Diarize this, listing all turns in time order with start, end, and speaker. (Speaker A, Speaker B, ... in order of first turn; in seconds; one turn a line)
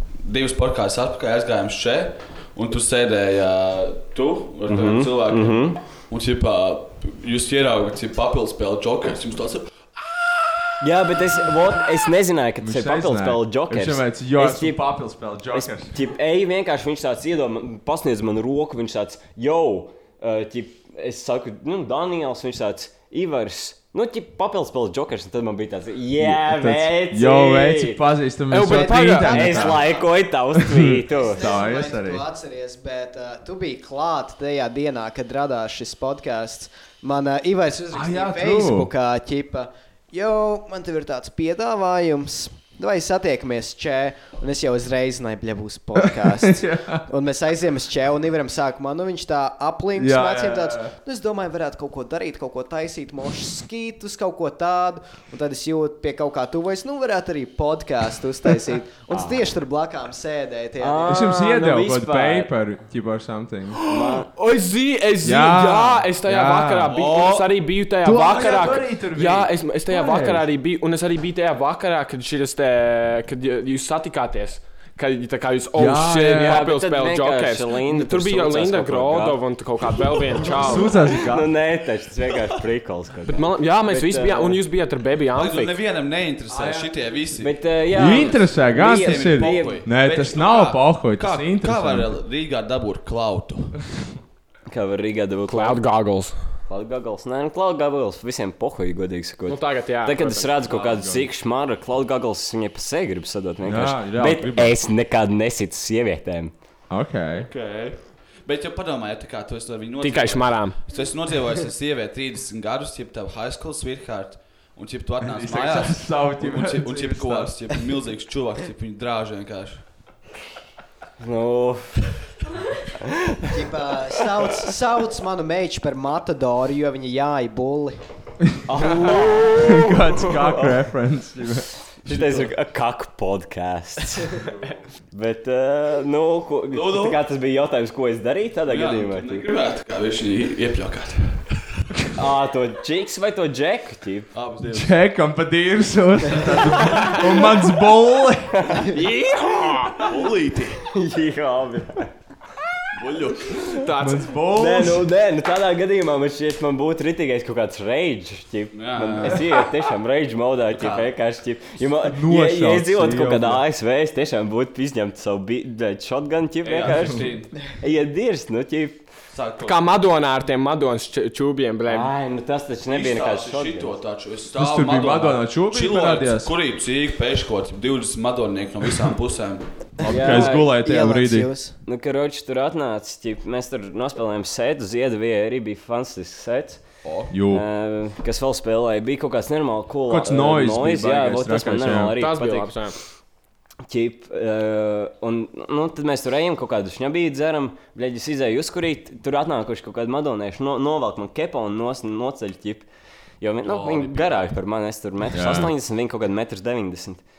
Speaker A: 0.2-10.6
Speaker B: 4.7-5.8
Speaker B: 10.8-14.9
Speaker C: 12.6-15.9
Speaker B: 15.5-28.1
Speaker C: 26.2-30.0
Speaker D: 28.5-29.7
Speaker E: 28.6-30.1
Speaker B: 29.2-31.5
Speaker C: 30.6-32.2
Speaker E: 31.1-61.3
Speaker C: 37.9-38.9
Speaker C: 46.0-47.1
Speaker C: 50.0-50.9
Speaker B: 59.1-59.5
Speaker B: 60.8-62.5
Speaker C: 61.0-63.8
Speaker B: 63.9-64.3
Speaker D: 64.0-80.9
Speaker C: 65.2-67.0
Speaker A: 66.9-67.5
Speaker C: 68.0-70.5
Speaker C: 75.8-76.6
Speaker B: 76.3-79.4
Speaker C: 80.5-81.5
Speaker B: 80.9-84.6
Speaker D: 83.3-85.8
Speaker A: 85.3-93.8
Speaker C: 86.5-86.9
Speaker B: 87.4-89.8
Speaker C: 87.9-92.1
Speaker B: 94.7-95.8
Speaker D: 95.5-96.3
Speaker B: 96.7-106.5
Speaker D: 99.5-100.5
Speaker C: 100.7-101.2
Speaker C: 103.6-104.7
Speaker C: 106.9-107.5
Speaker A: 107.4-119.8
Speaker D: 110.0-110.8
Speaker C: 115.2-117.6
Speaker B: 121.2-122.0
Speaker B: 123.0-123.7
Speaker E: 123.5-128.0
Speaker B: 128.7-130.8
Speaker C: 128.9-132.2
Speaker B: 132.0-134.4
Speaker B: 135.1-139.5
Speaker A: 136.7-137.2
Speaker A: 138.7-141.5
Speaker B: 142.2-144.3
Speaker A: 144.3-144.9
Speaker C: 144.7-148.8
Speaker A: 146.3-147.1
Speaker D: 148.9-150.1
Speaker A: 150.0-150.9
Speaker B: 150.9-152.1
Speaker A: 152.9-153.8
Speaker D: 153.7-154.3
Speaker C: 154.0-155.1
Speaker B: 154.5-169.1
Speaker A: 158.7-159.6
Speaker A: 160.7-161.1
Speaker C: 162.1-163.6
Speaker A: 166.6-167.6
Speaker A: 169.3-169.8
Speaker D: 169.6-172.1
Speaker B: 171.9-174.0
Speaker A: 172.9-179.7
Speaker C: 174.6-176.5
Speaker C: 180.0-181.5
Speaker B: 180.1-180.7
Speaker E: 180.1-181.8
Speaker B: 181.8-186.8
Speaker A: 187.0-187.3
Speaker C: 187.3-187.6
Speaker B: 187.5-192.7
Speaker C: 190.1-192.2
Speaker D: 192.2-193.0
Speaker B: 193.9-202.9
Speaker B: 203.4-207.2
Speaker A: 203.7-204.6
Speaker C: 205.3-205.7